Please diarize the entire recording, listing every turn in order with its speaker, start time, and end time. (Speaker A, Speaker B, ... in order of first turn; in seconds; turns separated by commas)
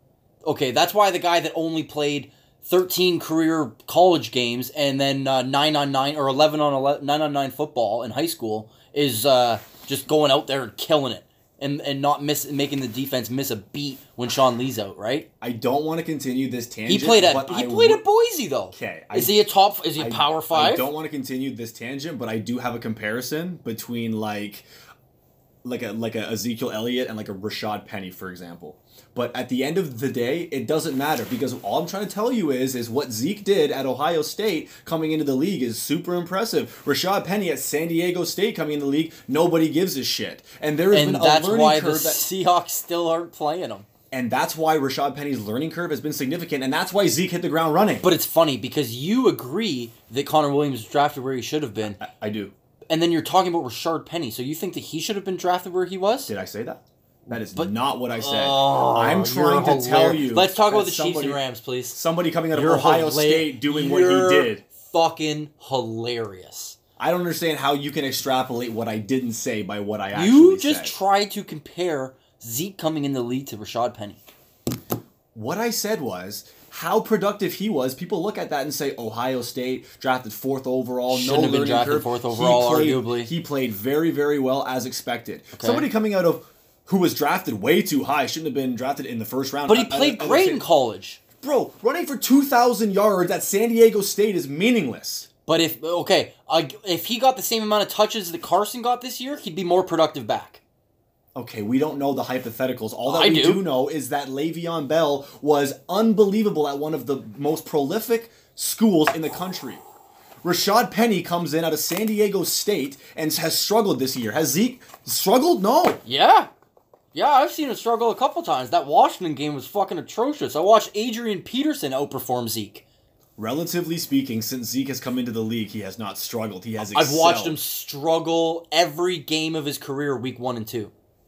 Speaker A: 0.5-15.3, Speaker B: 15.4-18.0, Speaker A: 16.9-20.9, Speaker B: 18.7-19.4, Speaker B: 20.0-24.7, Speaker B: 25.6-42.2, Speaker A: 40.9-43.9, Speaker B: 44.1-48.1, Speaker A: 48.0-52.0, Speaker B: 52.0-52.5, Speaker A: 52.9-56.3, Speaker B: 56.3-64.6, Speaker A: 57.3-62.0, Speaker A: 62.5-66.8, Speaker B: 67.0-71.0, Speaker A: 70.1-74.2, Speaker B: 75.3-90.6, Speaker A: 81.1-83.3, Speaker A: 85.6-85.9, Speaker A: 89.7-91.2, Speaker B: 91.4-95.3, Speaker A: 95.5-100.6, Speaker B: 101.3-109.8, Speaker A: 103.0-103.7, Speaker B: 110.4-116.0, Speaker A: 116.0-116.5, Speaker A: 117.1-122.8, Speaker B: 123.4-127.6, Speaker A: 126.8-130.9